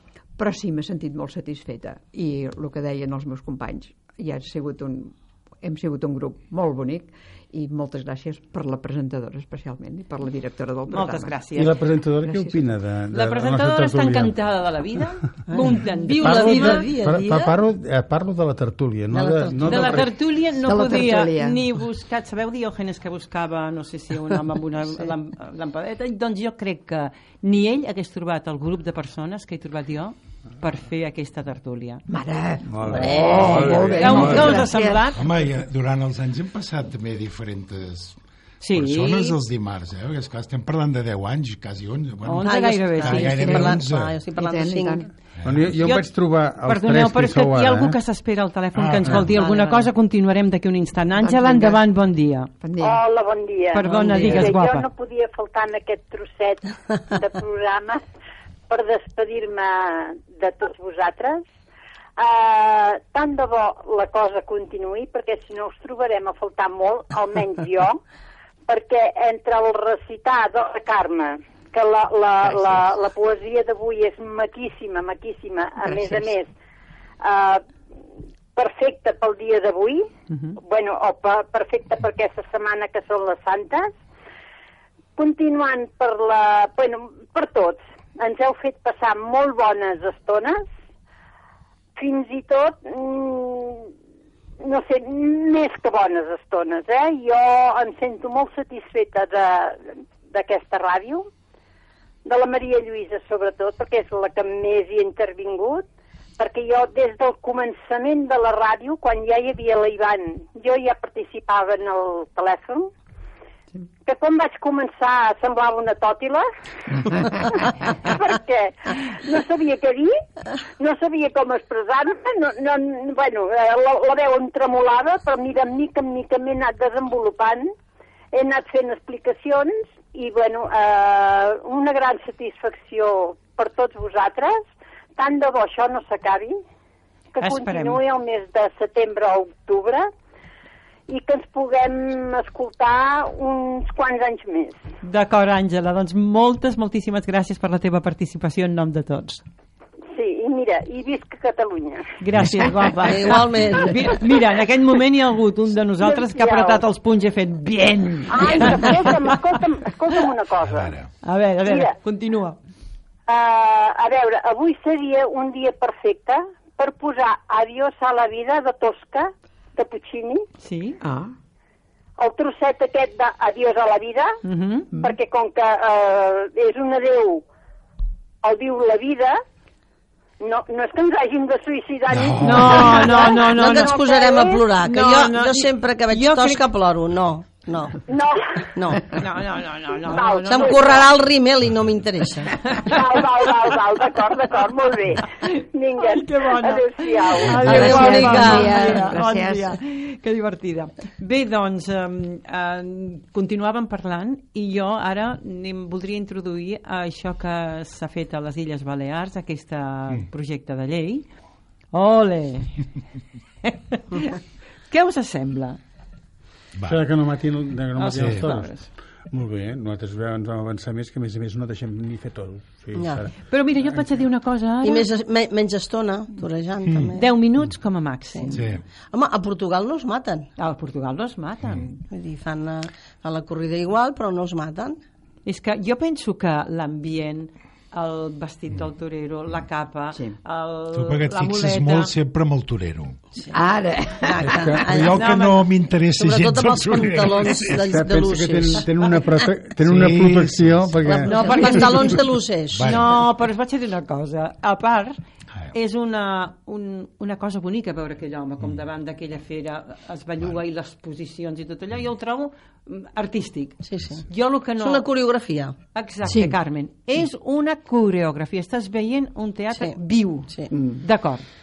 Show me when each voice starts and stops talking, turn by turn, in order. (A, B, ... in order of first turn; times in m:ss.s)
0:00.4-0:11.4 A
0:10.9-0:11.8 B
0:11.5-0:14.4 C
0:12.2-0:12.6 A
0:13.1-0:17.4 B
0:15.5-0:17.5 D
0:16.2-0:20.1 C
0:19.1-0:20.1 D
0:19.6-0:32.0 B
0:20.6-0:21.6 A
0:32.1-0:35.1 A
0:32.7-0:34.7 C
0:32.9-0:35.2 B
0:35.1-0:38.2 E
0:38.6-0:39.4 B
0:38.7-0:44.1 E
0:42.2-0:43.6 B
0:42.4-0:45.1 D
0:43.3-0:43.8 A
0:44.4-0:45.1 A
0:45.4-0:45.7 E
0:45.4-0:48.0 C
0:45.8-0:46.1 B
0:46.6-0:52.5 B
0:48.8-0:49.4 E
0:49.3-0:49.7 A
0:51.2-0:51.8 A
0:52.6-0:53.0 A
0:52.8-0:58.0 F
0:53.7-0:54.9 B
0:53.9-0:54.6 A
0:58.7-1:01.5 F
1:02.2-1:08.0 F
1:08.7-1:16.5 F
1:15.8-1:16.2 A
1:17.2-1:17.6 F
1:18.5-1:24.0 F
1:20.3-1:20.6 B
1:25.2-1:30.7 F
1:32.0-1:33.9 F
1:34.6-1:41.3 F
1:42.2-1:45.9 F
1:46.4-1:52.9 F
1:54.0-1:56.5 F
1:57.0-2:00.2 F
2:00.8-2:07.7 F
2:08.3-2:16.6 F
2:17.3-2:20.1 F
2:17.4-2:18.0 B
2:21.1-2:24.8 F
2:25.0-2:29.4 B
2:30.1-2:32.2 F
2:32.2-2:39.6 B
2:33.0-2:34.1 D
2:36.0-2:36.8 F
2:38.3-2:41.0 F
2:40.6-2:41.1 E
2:41.2-2:42.6 B
2:41.6-2:41.9 F
2:43.3-2:50.4 F
2:50.6-2:51.0 B
2:51.0-2:51.3 A
2:52.2-2:54.4 F
2:54.4-2:54.9 B
2:55.0-2:57.4 F
2:58.4-2:59.4 F
3:00.4-3:04.6 F
3:02.1-3:03.2 E
3:02.4-3:04.0 B
3:03.4-3:08.0 D
3:04.8-3:06.6 B
3:08.1-3:08.7 F
3:08.7-3:09.2 D
3:09.1-3:11.0 B
3:10.0-3:11.0 F
3:10.5-3:12.6 D
3:12.6-3:13.2 B
3:12.7-3:18.3 F
3:16.0-3:31.2 B
3:17.6-3:19.8 A
3:17.6-3:19.0 D
3:31.9-3:32.8 B
3:33.6-3:34.4 B
3:34.9-3:35.8 B
3:36.7-3:37.0 E
3:36.9-3:38.7 C
3:38.0-3:38.9 B
3:39.3-3:43.3 C
3:42.9-3:43.2 D
3:43.4-3:45.1 B
3:44.8-3:47.3 D
3:46.9-3:47.1 E
3:47.1-3:48.7 B
3:48.5-3:48.8 E
3:49.1-3:50.5 D
3:50.6-3:52.0 B
3:52.1-3:55.0 D
3:55.4-4:02.1 B
4:00.9-4:03.2 E
4:03.5-4:04.8 A
4:04.2-4:05.3 D
4:04.5-4:04.8 C
4:04.8-4:07.9 E
4:05.1-4:05.7 B
4:06.2-4:08.9 D
4:07.7-4:11.8 C
4:09.8-4:11.3 E
4:11.1-4:13.0 D
4:11.2-4:12.2 B
4:12.7-4:13.2 E
4:12.8-4:15.2 B
4:15.7-4:25.0 B
4:23.8-4:24.2 D
4:24.8-4:25.8 D
4:25.9-4:31.4 B
4:26.3-4:26.5 A
4:30.7-4:31.0 A